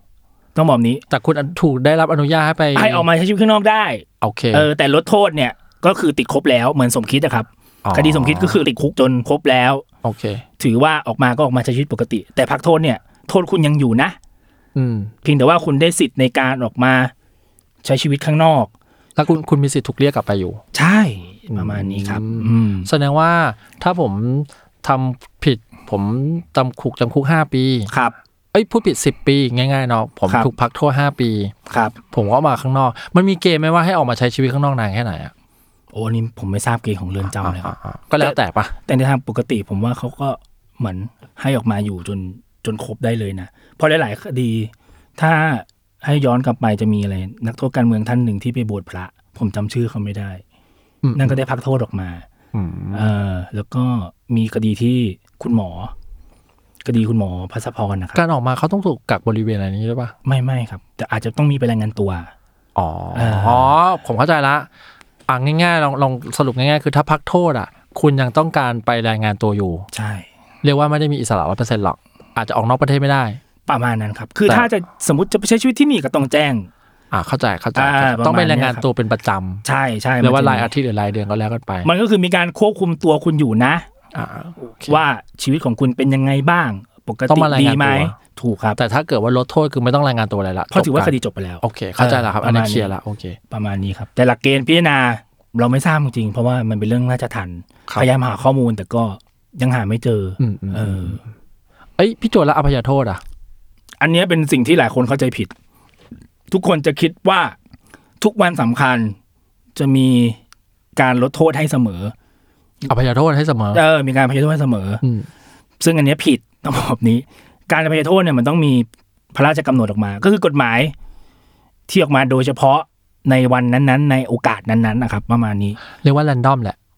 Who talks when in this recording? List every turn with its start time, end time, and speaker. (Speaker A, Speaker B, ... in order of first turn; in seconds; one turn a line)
Speaker A: 0.5-1.0
Speaker B: 1.1-3.1
Speaker A: 2.7-9.8
Speaker B: 4.2-4.7
Speaker B: 7.8-8.6
Speaker B: 10.0-10.4
Speaker A: 10.6-14.2
Speaker B: 14.7-15.1
Speaker A: 15.2-17.1
Speaker A: 17.8-18.7
Speaker B: 19.1-20.6
Speaker A: 20.7-22.9
Speaker B: 21.5-27.9
Speaker A: 27.9-28.1
Speaker B: 28.5-31.5
Speaker A: 30.3-30.5
Speaker A: 31.7-32.0
Speaker B: 32.1-35.3
Speaker A: 35.9-50.4
Speaker B: 37.3-38.7
Speaker B: 51.0-51.4
Speaker A: 51.1-52.2
Speaker B: 52.5-53.1
Speaker A: 52.9-55.9
Speaker A: 56.8-58.2
Speaker B: 58.1-60.1
Speaker A: 60.2-62.3
Speaker B: 62.8-64.7
Speaker A: 63.1-63.8
Speaker B: 65.3-69.9
Speaker A: 69.9-70.2
Speaker B: 70.6-73.4
Speaker A: 73.7-76.7
Speaker B: 77.1-79.6
Speaker A: 77.7-78.8
Speaker A: 79.6-80.7
Speaker B: 80.2-81.9
Speaker A: 81.8-83.9
Speaker B: 84.1-85.0
Speaker A: 84.9-88.8
Speaker B: 87.3-88.2
Speaker B: 88.8-93.4
Speaker A: 90.7-92.9
Speaker A: 93.5-101.2
Speaker B: 100.4-101.2
Speaker B: 102.0-103.2
Speaker A: 104.0-105.5
Speaker A: 106.5-107.5
Speaker A: 108.2-109.2
Speaker A: 109.7-110.4
Speaker A: 110.9-112.1
Speaker B: 112.8-113.8
Speaker A: 113.7-115.0
Speaker B: 115.0-115.3
Speaker A: 115.8-120.9
Speaker A: 121.9-125.8
Speaker B: 126.0-126.8